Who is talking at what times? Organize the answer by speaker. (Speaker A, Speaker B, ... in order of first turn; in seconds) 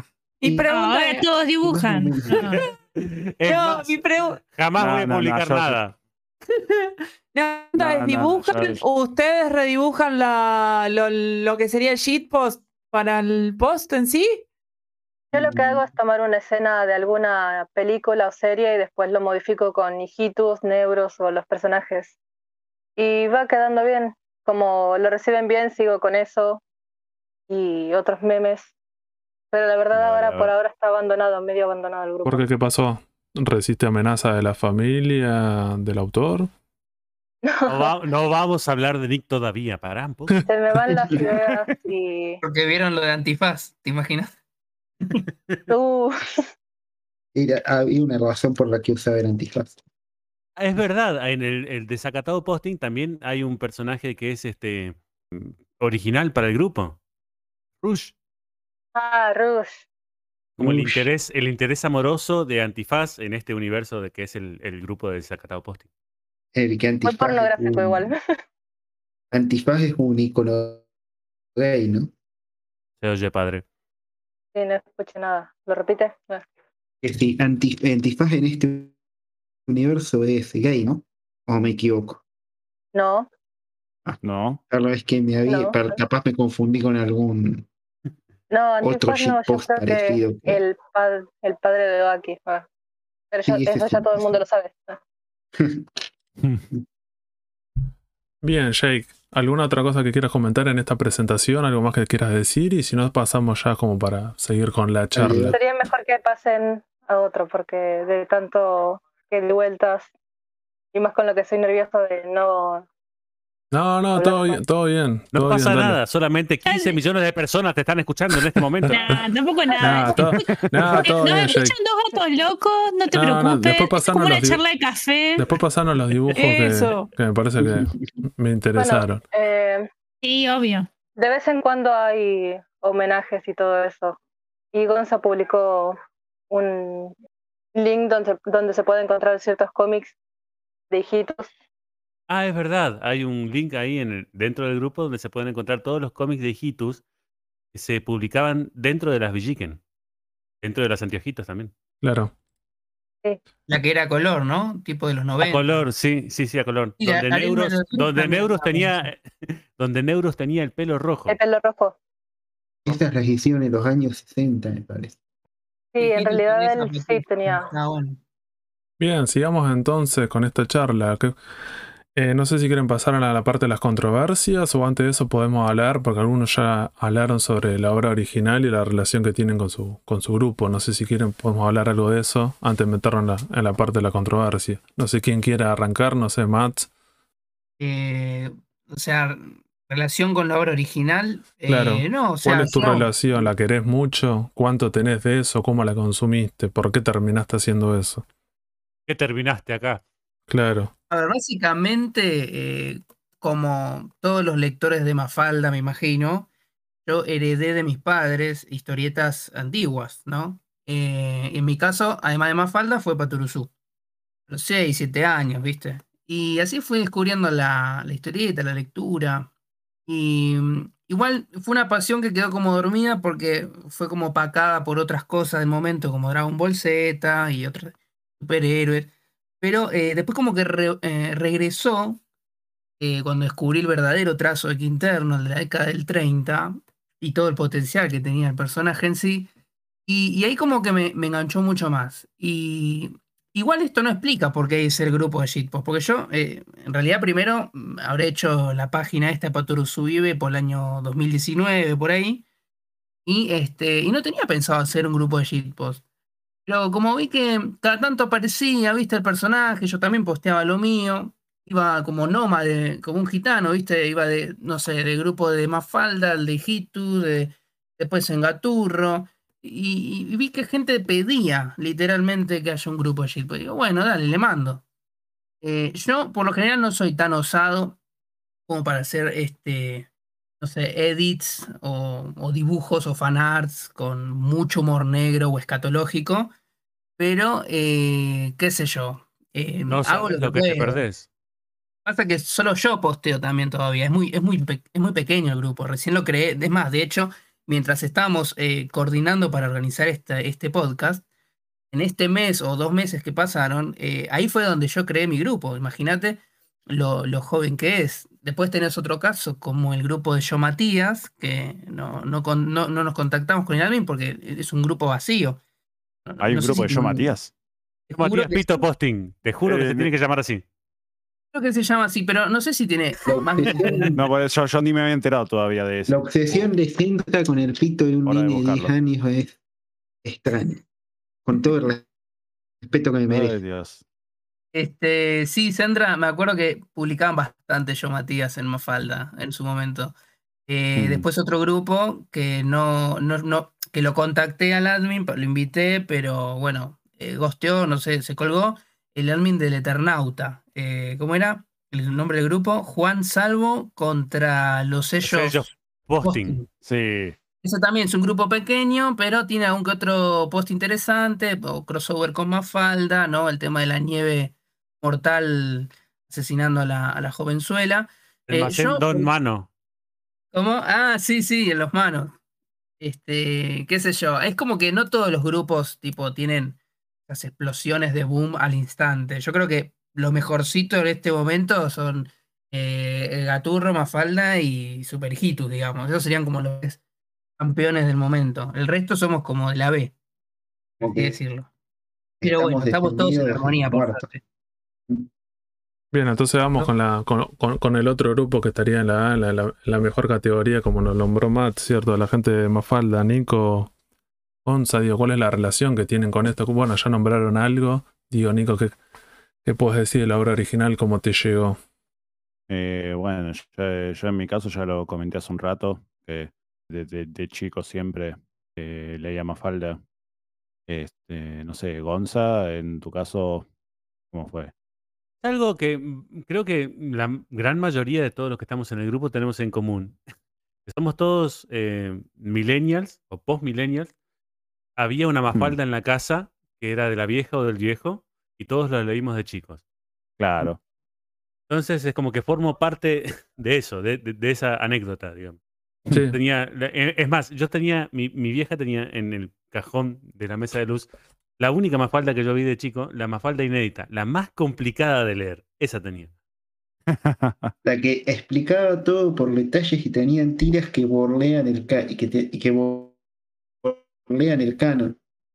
Speaker A: 0.4-1.3, 2.4-2.7, 3.5-4.4, 7.3-14.4, 126.3-127.1
Speaker B: 0.7-2.6, 116.7-117.0, 118.9-125.5, 130.2-130.9
Speaker C: 1.6-2.5, 15.3-15.9, 47.4-49.8, 66.5-68.1, 69.3-70.8, 71.6-72.1, 77.0-78.9, 79.7-82.2, 84.1-87.7, 88.8-90.6, 93.5-94.4, 95.6-95.9, 105.1-105.6, 127.6-128.2, 162.8-165.2, 316.6-317.3, 323.3-324.1, 326.1-329.6, 330.2-330.8, 331.4-332.1, 332.8-333.6, 391.0-391.4, 392.4-394.3, 457.9-463.1, 463.8-465.2
Speaker D: 3.0-6.0, 37.7-40.4, 50.6-57.0, 57.8-58.1, 60.6-65.8, 73.0-73.6, 115.3-119.1, 142.3-147.0, 147.7-149.8, 150.6-151.7, 155.4-161.4, 199.1-200.0, 289.9-291.3, 318.2-320.6, 355.2-356.6, 368.5-369.7, 425.4-430.2, 430.9-434.1, 435.0-439.8, 441.7-445.6, 446.3-451.1, 451.6-456.3
Speaker E: 4.8-5.8, 7.8-8.8, 29.9-30.5, 60.6-61.1, 84.2-84.6, 118.6-118.9, 120.3-120.9, 316.4-317.5, 319.6-320.1, 324.1-326.7, 328.3-328.9, 333.3-334.0, 341.0-341.2, 356.8-357.4, 412.7-420.0, 420.9-423.7, 424.3-424.7, 440.4-440.8, 457.1-457.7
Speaker F: 15.3-22.1, 23.0-26.6, 27.5-28.7, 29.5-32.5, 37.4-37.9, 40.5-42.4, 45.7-46.4, 59.0-59.8, 67.0-68.2, 74.5-76.5, 82.9-83.3, 85.5-85.9, 88.5-92.6, 93.3-95.0, 105.5-110.1, 110.9-112.9, 114.2-114.6, 128.8-129.9, 131.2-134.2, 134.7-136.0, 136.5-137.1, 137.8-140.1, 140.9-141.5, 161.3-161.9, 165.9-167.7
Speaker G: 32.2-36.5, 98.4-105.6, 113.7-116.0, 118.9-119.2, 119.8-121.8, 123.1-124.6, 125.4-129.2, 152.0-152.3, 169.0-171.4, 172.1-186.9, 191.7-198.2, 200.5-200.9, 396.1-403.9, 404.6-409.0, 409.6-411.8, 446.1-446.4
Speaker H: 42.4-44.3, 153.7-155.8, 157.0-159.1, 166.0-168.2, 187.8-193.5, 201.1-206.5, 207.1-213.7, 214.5-219.5, 220.1-229.1, 229.6-232.2, 233.0-239.5, 240.1-252.4, 253.3-256.0, 256.7-274.8, 275.6-278.0, 278.7-280.1, 280.6-286.5, 287.2-291.0, 292.1-301.2, 301.9-315.6, 316.3-317.0, 318.1-318.8, 321.5-324.1, 334.7-340.1, 340.7-355.6, 356.2-356.6, 357.6-369.3, 370.5-372.4, 373.0-387.0, 387.6-390.1, 391.0-391.7, 392.4-394.4